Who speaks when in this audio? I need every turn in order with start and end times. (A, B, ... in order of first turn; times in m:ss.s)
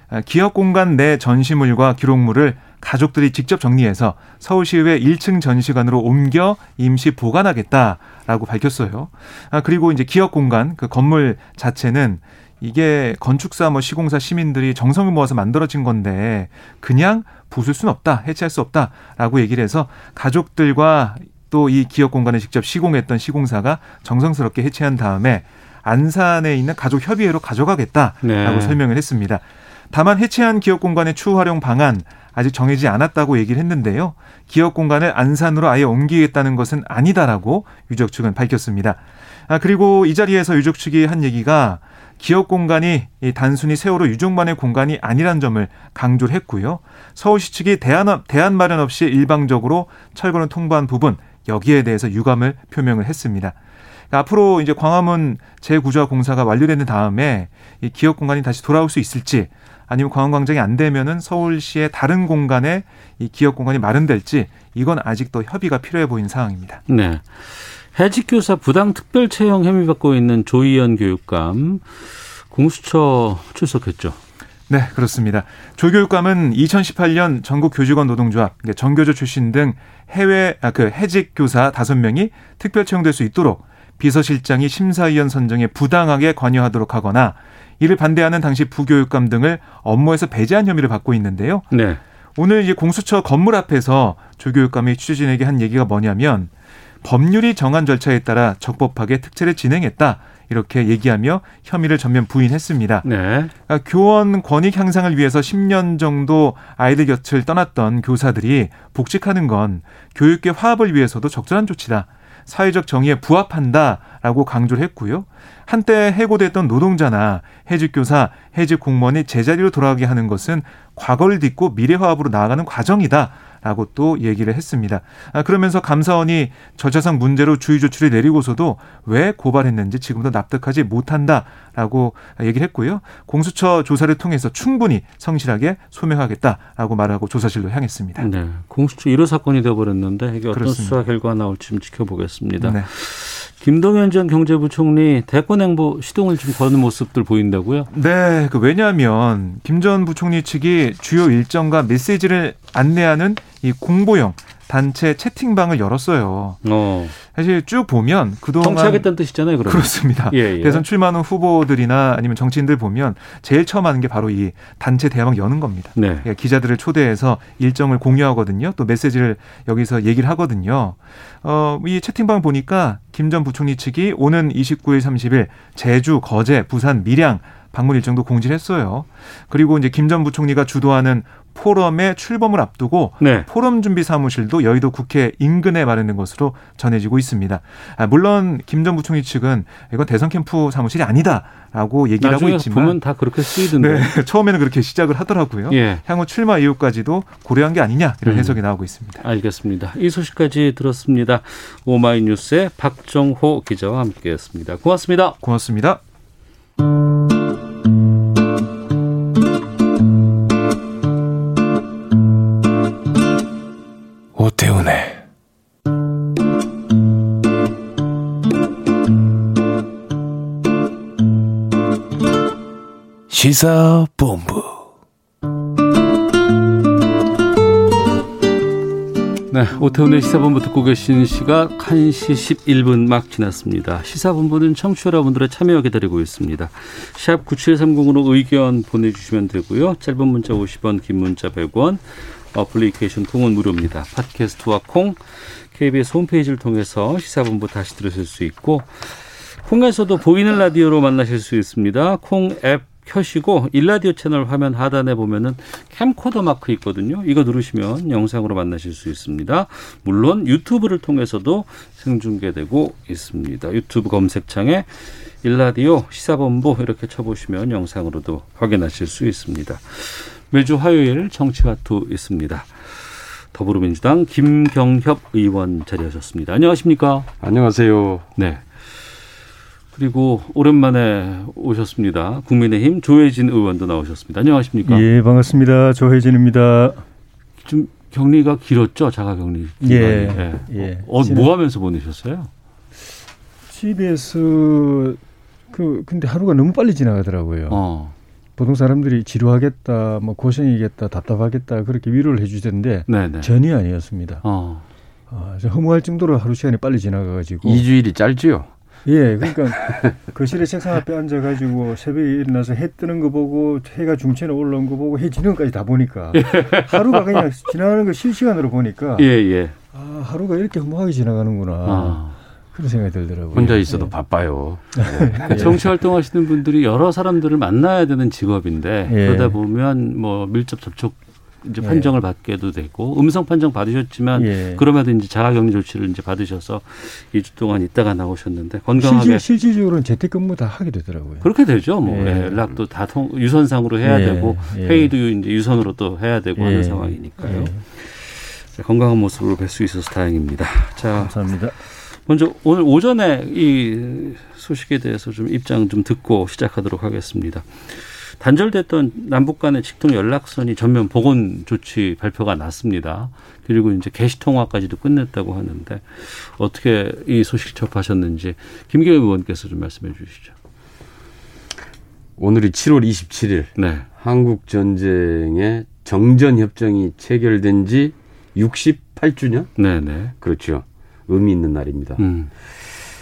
0:00.1-0:53.6 A
0:28.2-0:28.8 B
0:54.1-1:06.8 A
1:06.9-1:14.2 B
1:14.7-1:31.6 A
1:31.7-1:32.0 B
1:32.4-1:36.5 A
1:37.0-1:43.1 A
1:43.0-1:43.5 B
1:43.7-2:18.3 A
2:18.2-2:27.9 B
2:20.5-2:21.0 A
2:22.6-2:22.9 A
2:27.9-2:36.6 A
2:36.6-2:37.1 B
2:37.2-3:19.2 A
2:38.6-2:40.8 B
2:46.0-2:46.3 B
3:03.2-3:03.5 B
3:12.2-3:14.1 B
3:15.7-3:16.0 B
3:18.2-3:18.6 B
3:19.2-3:25.4 B
3:25.4-3:26.0 A
3:34.3-3:35.2 C
3:43.3-3:44.8 C
3:49.5-4:37.3 B
4:37.4-4:38.3 D
4:38.4-4:38.6 B
4:39.9-4:45.0 B
4:44.8-4:47.0 E
4:47.6-4:52.5 B
4:49.8-4:51.5 E
4:53.7-4:55.2 E
4:55.7-4:57.8 E
4:57.7-4:58.1 B
4:58.6-5:04.4 E
5:03.1-5:03.5 B
5:04.4-5:04.8 B
5:05.3-5:07.8 E
5:07.6-5:08.7 D
5:09.0-5:19.3 E
5:16.3-5:17.4 B
5:19.2-5:19.7 B
5:19.9-5:22.2 E
5:21.8-5:22.4 B
5:22.7-5:24.1 E
5:23.5-5:25.9 D
5:24.9-5:25.8 E
5:25.5-5:39.4 B
5:29.1-5:29.6 E
5:31.8-5:32.1 E
5:34.3-5:34.8 E
5:39.0-5:41.5 E
5:41.4-5:51.4 B
5:42.0-5:42.6 E
5:44.0-5:45.1 E
5:46.6-5:47.8 E
5:51.2-5:51.7 E
5:52.2-6:10.5 B
6:12.4-6:19.7 D
6:13.8-6:14.0 B
6:19.8-6:20.3 B
6:20.4-6:22.2 D
6:22.2-6:22.5 B